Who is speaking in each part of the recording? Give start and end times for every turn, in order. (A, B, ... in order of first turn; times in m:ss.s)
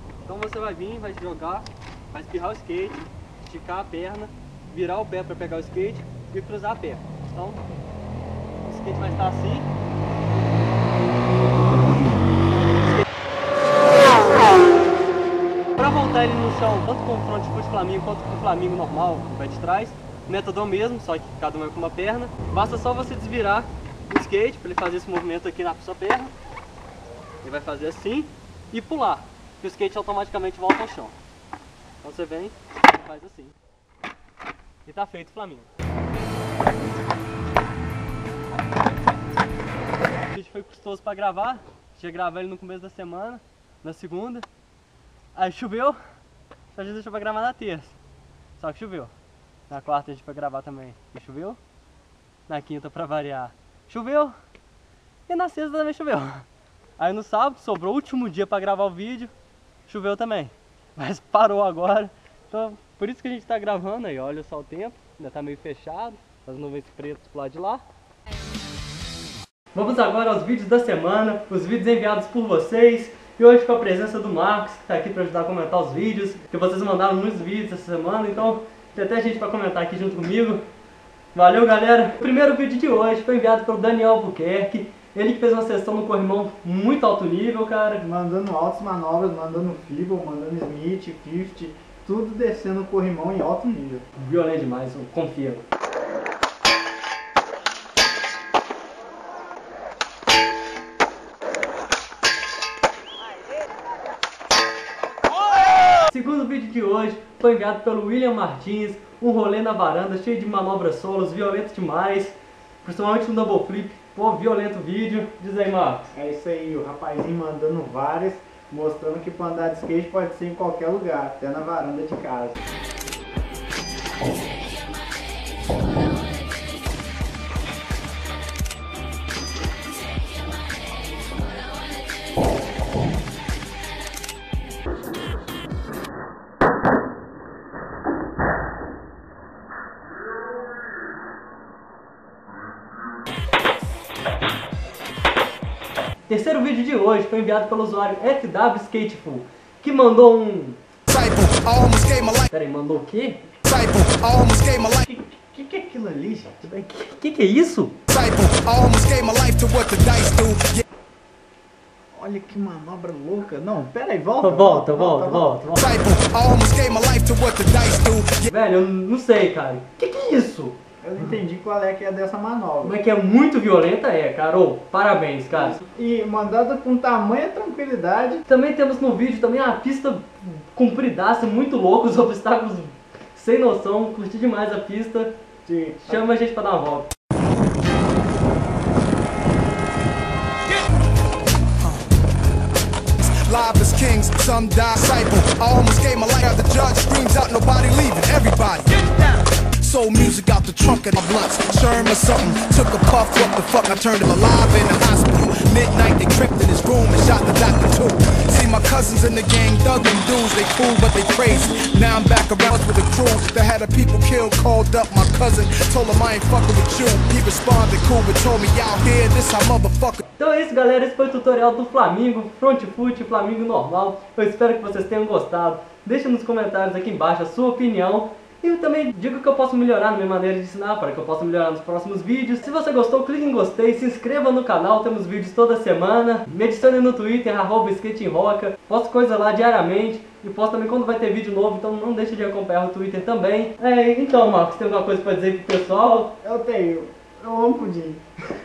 0:00.2-0:07.8 A
0:08.6-0:09.7 A
0:15.8-0:26.3 A
0:27.4-0:31.1 A
0:32.0-0:33.5 A
0:34.8-0:35.7 A
0:40.3-0:44.4 A
0:45.3-0:46.0 A
0:46.7-0:48.0 A
0:48.6-0:49.1 A
0:49.7-0:51.6 A
0:52.5-0:54.4 A
0:55.3-0:56.5 A
0:57.0-0:59.3 A
0:59.9-1:07.8 A
1:09.7-1:20.6 A
1:21.3-1:28.0 A
1:28.0-1:34.0 B
1:34.2-1:35.6 A
1:46.1-1:56.1 A
1:56.1-2:02.6 B
2:26.3-2:30.8 A
2:31.1-2:32.5 C
2:32.5-2:33.4 A
2:33.6-2:35.0 C
2:35.0-2:36.6 B
2:36.6-2:37.9 A
2:38.1-2:40.8 C
2:42.1-2:45.6 B
2:44.4-2:45.8 A
2:45.7-2:48.5 C
2:48.5-2:50.8 A
2:51.0-2:53.0 B
2:52.8-2:55.8 A
2:55.5-2:58.4 B
2:58.5-3:05.3 A
3:05.6-3:06.2 B
3:06.1-3:07.1 A
3:13.2-3:40.2 C
3:40.4-4:06.3 A
4:06.4-4:08.2 B